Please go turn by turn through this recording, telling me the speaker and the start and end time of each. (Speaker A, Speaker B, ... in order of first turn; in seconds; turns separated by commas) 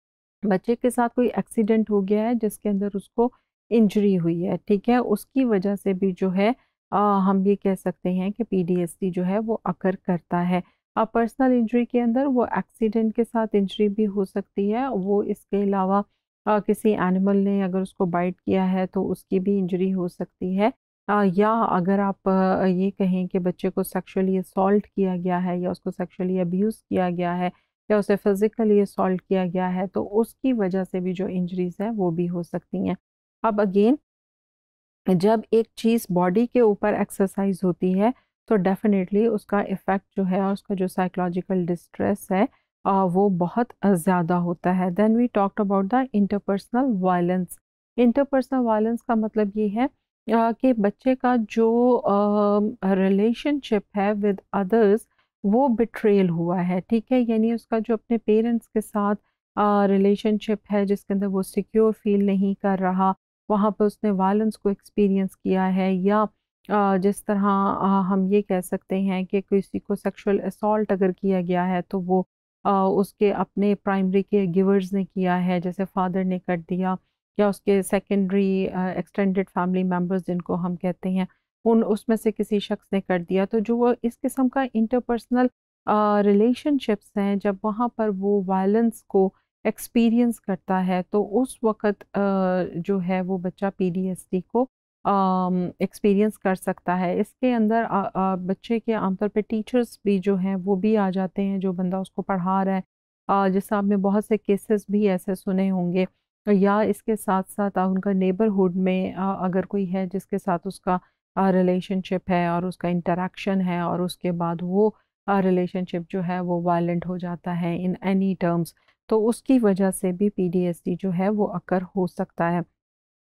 Speaker A: 0.5-34.0, Speaker A: 35.1-122.6